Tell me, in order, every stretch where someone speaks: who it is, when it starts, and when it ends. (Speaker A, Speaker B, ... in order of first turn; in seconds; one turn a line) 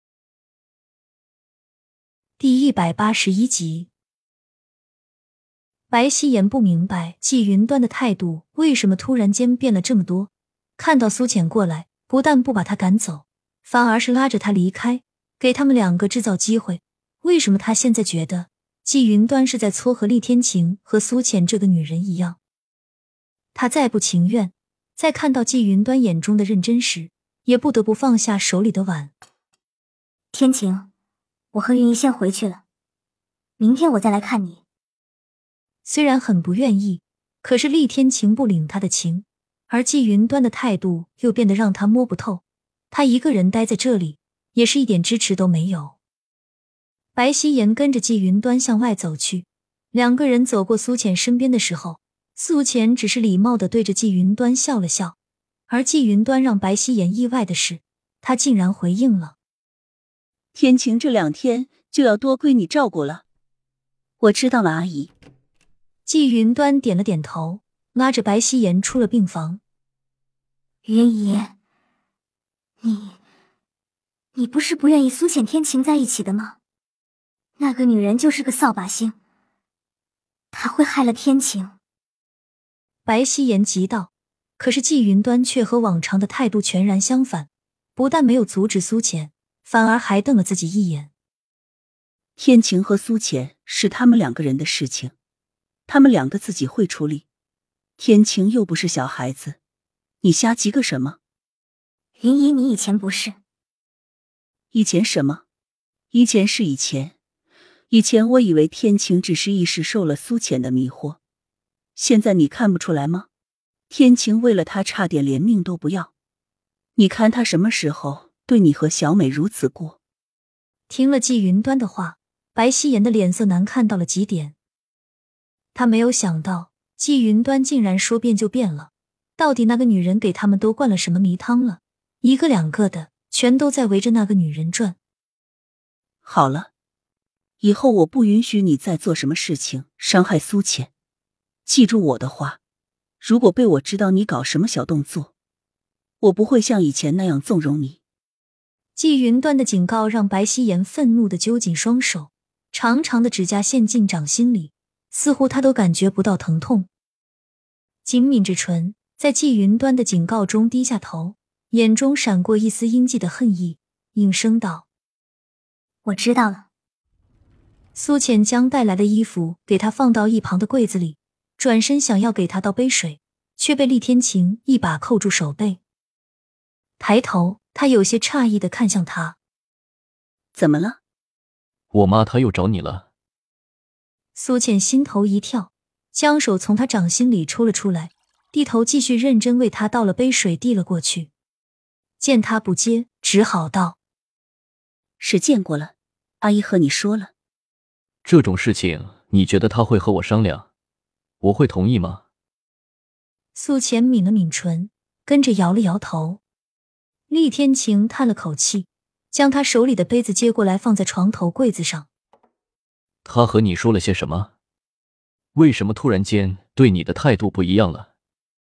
Speaker A: 2.4-3.9
Speaker A: 5.9-22.4
Speaker A: 23.5-29.1
Speaker B: 30.3-30.9
Speaker B: 31.5-32.6
Speaker B: 33.6-34.6
Speaker A: 35.9-46.0
Speaker A: 47.1-55.2
Speaker A: 55.7-59.4
Speaker C: 60.5-63.2
Speaker C: 64.2-65.1
Speaker A: 66.1-69.6
Speaker B: 70.8-71.5
Speaker B: 72.8-73.2
Speaker B: 74.3-76.6
Speaker B: 77.6-79.2
Speaker B: 80.5-81.8
Speaker A: 83.0-91.1
Speaker C: 92.4-95.1
Speaker C: 95.9-97.2
Speaker C: 98.0-99.6
Speaker C: 100.2-101.2
Speaker B: 102.2-103.4
Speaker C: 104.7-105.4
Speaker C: 106.1-107.2
Speaker C: 107.9-111.2
Speaker C: 112.0-113.3
Speaker C: 113.9-116.1
Speaker C: 117.0-120.0
Speaker A: 120.9-124.5
Speaker A: 125.7-135.0
Speaker C: 136.2-136.7
Speaker C: 137.6-140.9
Speaker C: 141.7-142.6
Speaker C: 143.2-145.3
Speaker C: 146.2-148.0
Speaker A: 149.0-156.9
Speaker A: 158.1-164.9
Speaker B: 166.1-166.7
Speaker A: 167.9-175.8
Speaker A: 177.0-179.4
Speaker C: 180.6-181.0
Speaker D: 181.9-183.1
Speaker A: 184.3-191.3
Speaker A: 192.2-194.0
Speaker C: 195.2-197.3
Speaker D: 198.2-200.7
Speaker D: 201.4-202.2
Speaker A: 203.6-206.4
Speaker A: 207.3-212.1
Speaker D: 213.2-214.5
Speaker D: 215.6-218.1